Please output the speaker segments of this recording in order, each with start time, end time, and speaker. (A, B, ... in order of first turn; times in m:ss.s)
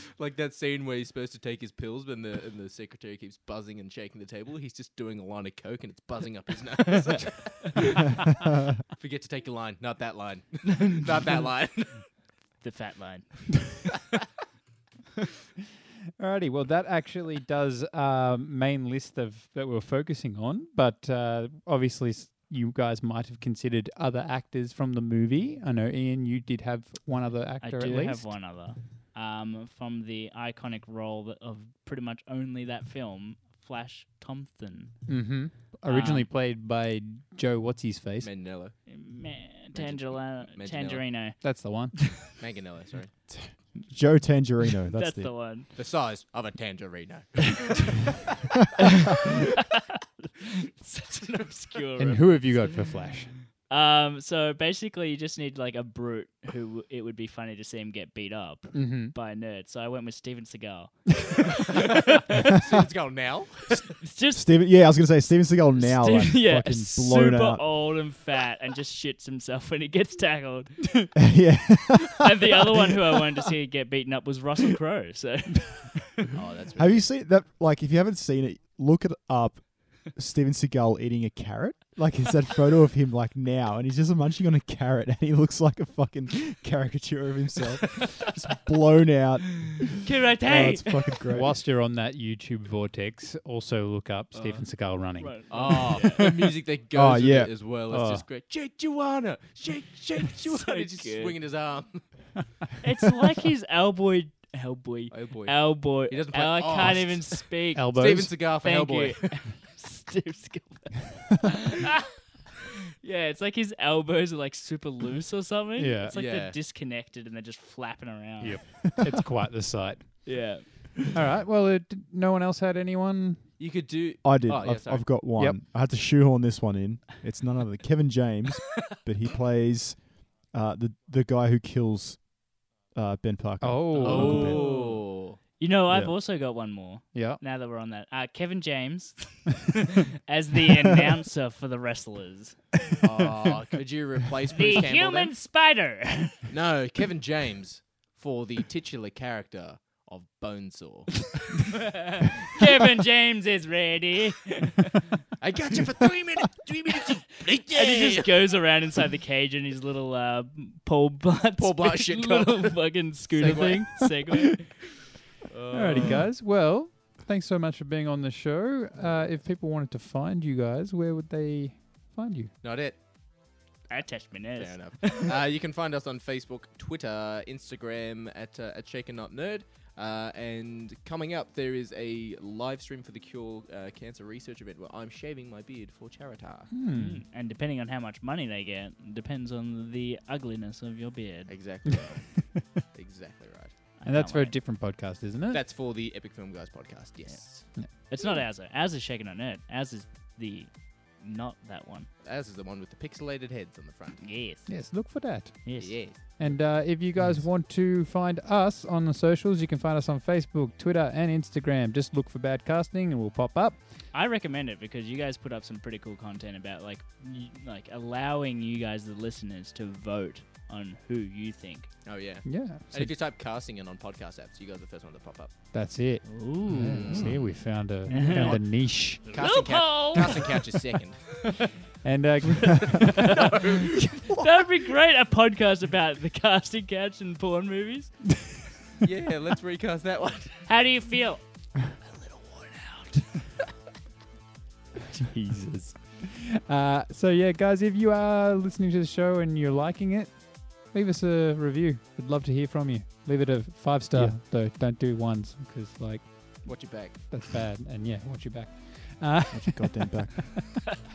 0:00.2-0:08.1 A
0:08.8-0:12.1 A
0:12.6-0:13.3 B
0:16.2-0:28.3 C
0:27.6-0:35.0 B
0:35.1-0:38.3 C
0:35.8-0:36.3 B
0:38.2-0:38.9 A
0:38.9-0:41.4 B
0:39.7-0:41.0 A
0:41.4-0:42.1 C
0:42.2-0:43.1 A
0:43.3-0:45.3 D
0:44.9-0:45.7 B
0:45.7-0:48.2 A
0:50.4-0:52.8 B
0:52.0-0:53.4 C
0:53.6-1:02.5 B
0:58.7-0:59.1 C
1:01.7-1:03.9 A
1:04.0-1:04.5 B
1:04.3-1:07.7 D
1:05.7-1:11.3 B
1:11.2-1:12.3 D
1:12.2-1:16.3 B
1:16.3-1:17.1 A
1:16.8-1:31.6 D
1:30.0-1:31.1 B
1:31.3-1:36.2 C
1:35.2-1:36.2 B
1:35.5-1:42.1 A
1:36.9-1:37.5 D
1:37.9-1:38.2 C
1:40.2-1:41.4 B
1:42.8-1:52.1 B
1:45.1-1:49.4 A
1:47.7-1:48.3 C
1:53.0-1:58.8 B
1:55.8-1:56.1 C
1:56.1-1:56.6 A
1:58.4-2:00.5 C
2:00.2-2:00.7 B
2:01.1-2:03.4 C
2:03.6-2:05.1 A
2:04.2-2:14.6 D
2:13.6-2:14.5 C
2:14.0-2:15.4 A
2:14.0-2:22.6 B
2:15.9-2:16.1 D
2:17.1-2:17.4 C
2:23.0-2:25.3 A
2:24.5-2:26.4 B
2:26.5-2:31.3 A
2:31.7-2:35.1 B
2:35.4-2:38.5 A
2:37.7-2:44.8 B
2:41.6-2:44.1 A
2:43.4-2:44.4 C
2:45.5-2:46.3 A
2:45.7-2:52.5 C
2:52.6-2:53.0 A
2:53.9-2:55.3 B
2:54.6-3:06.7 A
3:06.7-3:07.2 C
3:06.9-3:11.5 B
3:11.5-3:13.7 A
3:14.0-3:14.5 B
3:14.0-3:15.6 C
3:15.5-3:17.7 A
3:17.3-3:22.1 B
3:22.2-3:24.3 A
3:24.2-3:24.8 B
3:24.7-3:33.8 C
3:25.6-3:26.0 B
3:25.8-3:26.2 A
3:27.2-3:27.4 D
3:34.1-3:41.9 B
3:42.0-3:45.5 A
3:42.4-3:43.1 C
3:45.7-3:49.2 C
3:46.2-3:47.4 B
3:46.7-3:51.6 A
3:48.1-3:50.7 B
3:52.0-3:53.3 C
3:52.8-3:54.2 A
3:52.9-3:58.1 B
3:59.0-4:00.7 A
4:00.7-4:01.4 B
4:02.1-4:03.2 B
4:05.2-4:20.2 C
4:14.1-4:14.4 D
4:16.6-4:17.4 A
4:19.5-4:20.7 D